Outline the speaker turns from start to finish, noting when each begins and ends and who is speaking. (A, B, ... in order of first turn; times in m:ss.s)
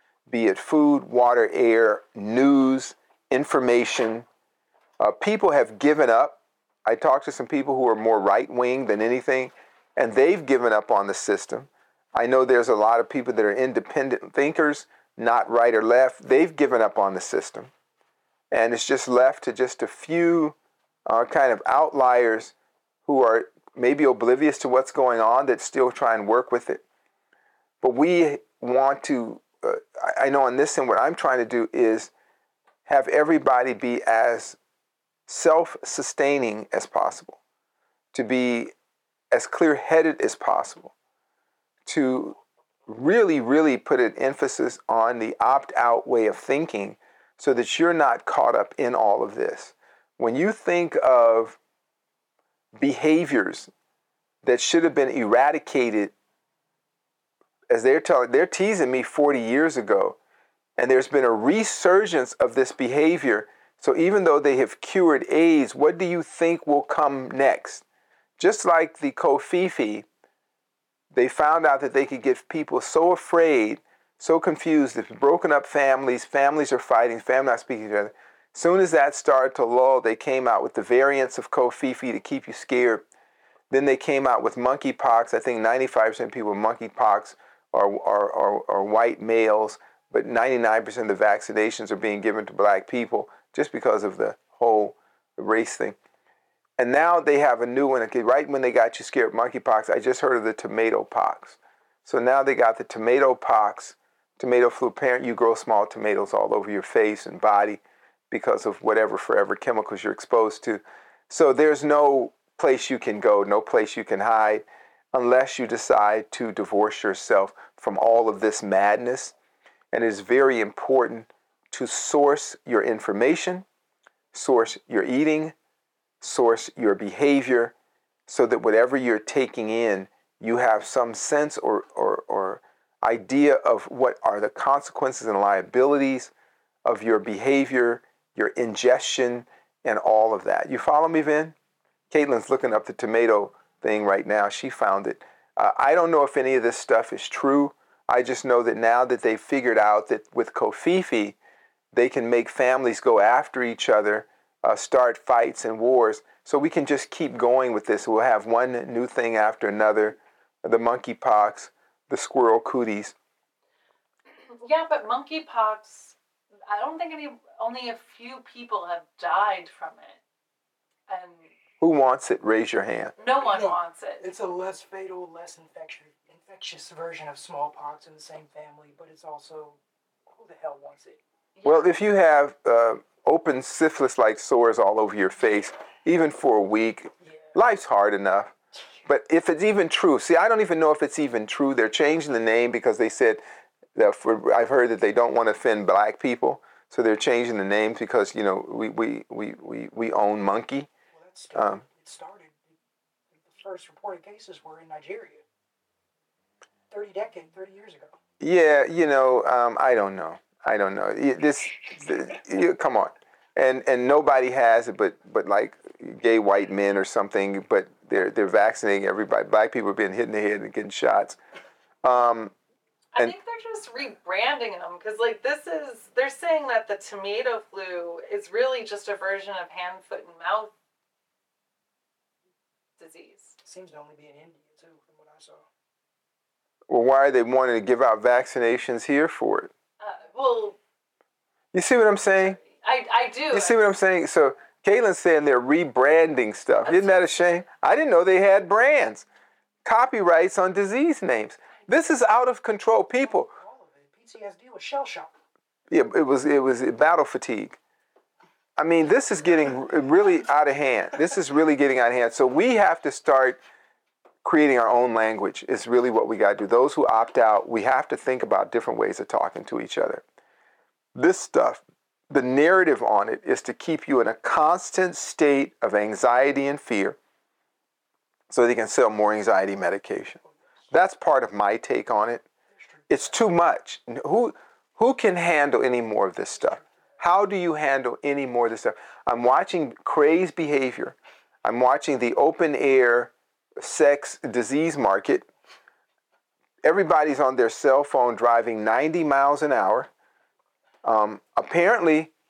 0:00.3-0:04.3 A
0:05.0-0:17.7 A
0:18.5-0:20.5 A
0:21.0-0:22.5 A
0:23.0-0:26.8 A
0:27.8-0:32.1 A
0:32.9-0:34.6 A
0:35.3-0:37.4 A
0:38.1-0:38.7 A
0:39.3-0:40.9 A
0:41.8-0:51.6 A
0:52.8-0:53.7 A
0:54.4-0:56.1 A
0:57.7-1:00.2 A
1:00.8-1:07.8 A
1:08.4-1:10.0 A
1:11.1-1:23.0 A
1:23.7-1:36.0 A
1:36.8-1:59.3 A
1:59.9-2:03.6 A
2:04.3-2:05.5 A
2:06.2-2:07.7 A
2:08.3-2:16.3 A
2:16.8-2:21.5 A
2:22.1-2:31.4 A
2:31.9-2:43.1 A
2:44.5-2:46.2 B
2:46.7-2:50.2 B
2:51.1-2:51.5 B
2:51.8-2:53.1 A
2:53.2-2:54.2 B
2:53.4-3:01.2 C
3:01.6-3:01.9 B
3:01.6-3:08.5 A
3:09.0-3:13.4 A
3:13.9-3:20.9 A
3:21.1-3:22.5 C
3:21.5-3:21.8 A
3:23.4-3:25.4 C
3:26.9-3:28.1 C
3:28.4-3:41.4 A
3:42.0-3:42.5 A
3:43.1-3:50.7 B
3:53.0-3:53.5 B
3:53.6-3:55.6 C
3:56.9-3:59.7 A
4:00.0-4:00.8 B
4:01.7-4:02.6 A
4:02.6-4:03.8 B
4:03.5-4:09.2 A
4:06.8-4:07.3 B
4:09.8-4:13.5 A
4:13.2-4:15.3 C
4:15.9-4:17.8 A
4:18.8-4:23.6 A
4:24.4-4:30.2 A
4:31.1-4:37.2 A
4:38.5-4:40.4 A
4:40.9-4:42.4 A
4:43.1-4:55.5 A
4:56.8-5:00.1 A
5:01.0-5:02.3 A